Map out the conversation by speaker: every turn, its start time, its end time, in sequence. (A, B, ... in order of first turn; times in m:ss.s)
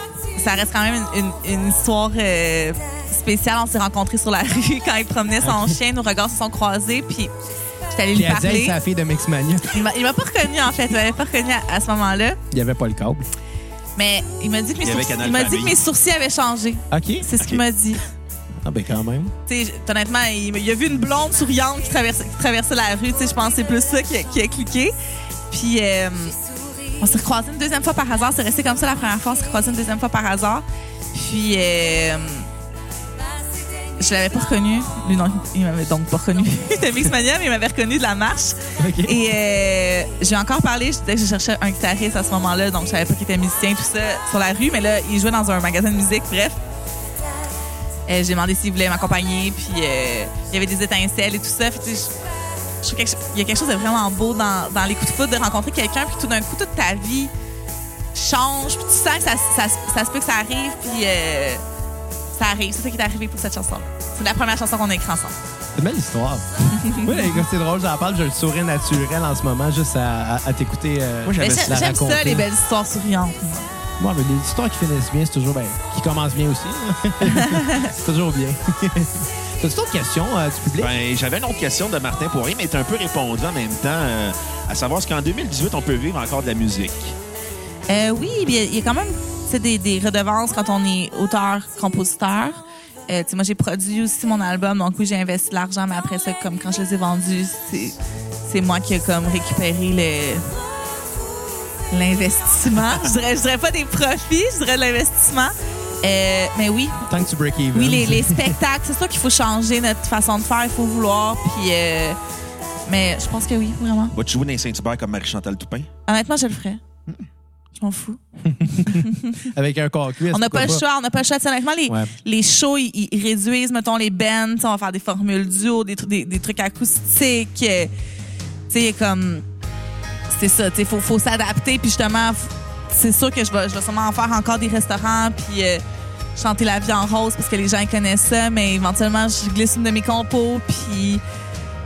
0:00.3-0:07.3 A
0:05.4-0:05.8 B
0:07.9-0:08.8 A
0:08.1-0:09.8 B
0:09.7-0:12.4 A
0:12.5-0:13.3 B
0:14.0-0:18.0 A
0:14.8-0:15.8 C
0:16.9-0:17.3 B
0:18.6-0:19.3 B
0:19.5-0:24.9 A
0:25.5-0:26.4 A
0:27.0-0:32.5 A
0:34.0-0:46.6 A
0:38.8-0:39.2 B
0:48.1-0:52.1 A
0:52.8-0:57.3 A
0:58.1-1:01.6 A
1:02.3-1:05.4 A
1:05.7-1:12.5 B
1:06.7-1:07.4 A
1:11.2-1:11.8 C
1:11.4-1:13.7 A
1:14.0-1:20.9 B
1:17.2-1:17.9 A
1:20.8-1:27.2 C
1:27.9-1:40.6 A
1:41.9-1:47.1 A
1:47.1-1:48.6 B
1:47.7-1:52.2 A
1:52.9-1:54.1 A
1:54.1-1:55.9 C
1:56.1-1:56.8 A
1:57.8-1:59.4 A
1:58.4-2:00.8 B
2:00.3-2:07.9 A
2:08.7-2:09.4 A
2:10.3-2:15.8 A
2:16.4-2:21.2 A